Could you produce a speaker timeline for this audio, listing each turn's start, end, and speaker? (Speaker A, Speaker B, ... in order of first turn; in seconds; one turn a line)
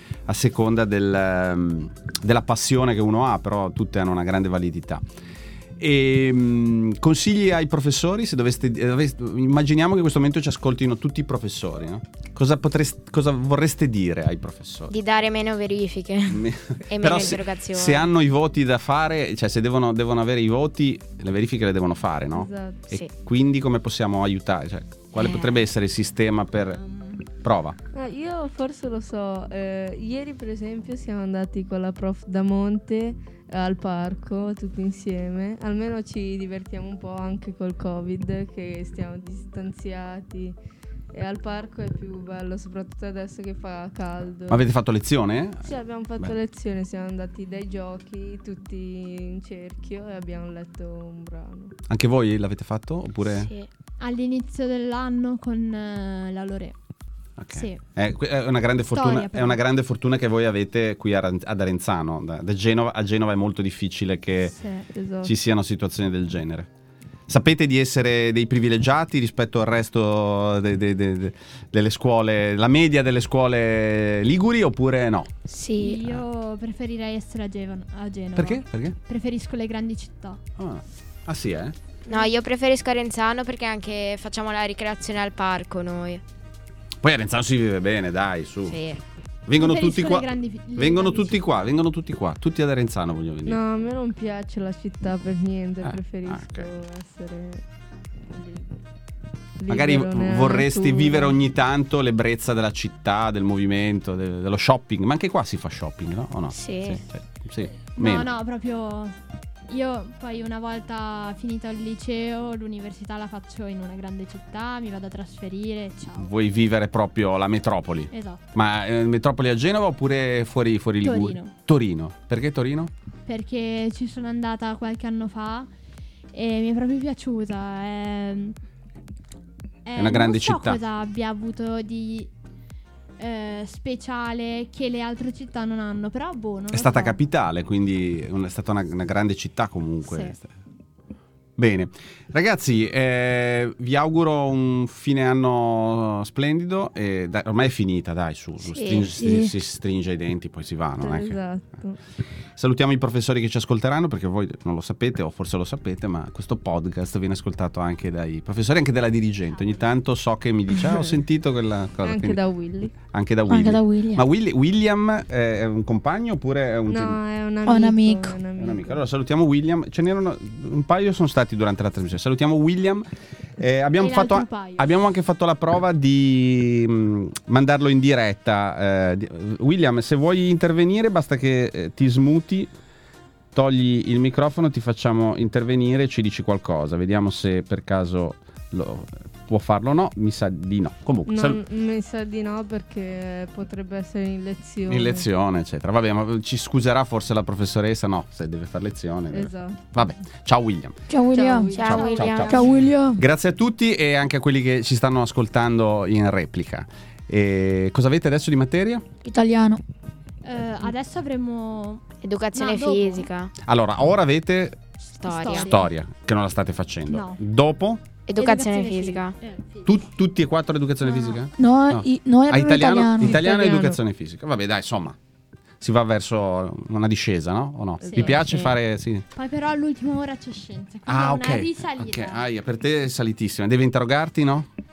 Speaker A: 0.3-5.0
Speaker A: 5.8-14.9
Speaker B: 14.9-18.1
Speaker A: 16.3-26.8
Speaker C: 22.3-22.9
Speaker B: 25.1-25.6
Speaker D: 26.8-27.2
Speaker A: 27.4-27.8
Speaker C: 27.9-40.6
Speaker C: 41.1-44.7
Speaker A: 44.5-46.3
Speaker C: 45.6-51.7
Speaker A: 51.9-53.5
Speaker B: 53.2-53.7
Speaker D: 54.0-56.8
Speaker A: 57.4-64.5
Speaker D: 57.5-57.8
Speaker D: 58.9-59.6
Speaker D: 64.4-64.8
Speaker C: 64.9-65.3
Speaker A: 65.2-66.7
Speaker A: 67.3-75.3
Speaker B: 75.5-76.0
Speaker D: 75.8-80.4
Speaker A: 78.3-79.0
Speaker A: 80.6-81.7
Speaker B: 82.1-86.2
Speaker A: 87.0-88.8
Speaker B: 88.7-89.0
Speaker A: 89.5-93.6
Speaker D: 89.5-91.3
Speaker C: 93.5-97.6
Speaker A: 95.8-96.7
Speaker C: 98.3-98.8
Speaker C: 99.6-101.4
Speaker A: 99.7-108.3
Speaker B: 106.5-107.0
Speaker D: 108.0-109.2
Speaker D: 109.7-116.3
Speaker A: 116.2-122.9
Speaker D: 118.1-118.5
Speaker D: 121.0-121.5
Speaker D: 123.2-125.7
Speaker D: 126.3-128.6
Speaker D: 129.8-132.3
Speaker A: 129.9-130.8
Speaker D: 133.2-137.2
Speaker A: 136.7-140.5
Speaker A: 141.6-151.4
Speaker B: 148.6-149.2
Speaker C: 151.0-152.0
Speaker A: 152.6-162.4
Speaker D: 159.5-159.9
Speaker C: 160.7-161.2
Speaker C: 162.0-162.9
Speaker A: 163.1-167.2
Speaker E: 163.5-164.2
Speaker C: 166.9-169.0
Speaker E: 167.6-168.3
Speaker A: 168.6-173.1
Speaker A: 173.6-182.7
Speaker D: 174.0-174.9
Speaker A: 183.5-191.6
Speaker C: 191.3-195.2
Speaker A: 194.9-200.9
Speaker C: 199.3-199.8
Speaker E: 201.1-203.2
Speaker C: 201.3-202.6
Speaker B: 201.7-202.6
Speaker A: 201.8-209.0
Speaker E: 209.2-209.8
Speaker D: 210.4-213.3
Speaker B: 212.2-213.5
Speaker A: 213.6-214.8
Speaker D: 215.1-215.9
Speaker B: 215.2-215.8
Speaker A: 215.5-218.0
Speaker D: 217.1-217.4
Speaker B: 218.3-219.3
Speaker D: 218.3-220.0
Speaker A: 219.8-225.2
Speaker D: 221.0-221.4
Speaker E: 221.6-223.4
Speaker C: 223.2-224.0
Speaker A: 225.8-229.2
Speaker C: 228.0-228.7
Speaker B: 228.4-228.8
Speaker D: 229.3-232.4
Speaker A: 231.1-234.7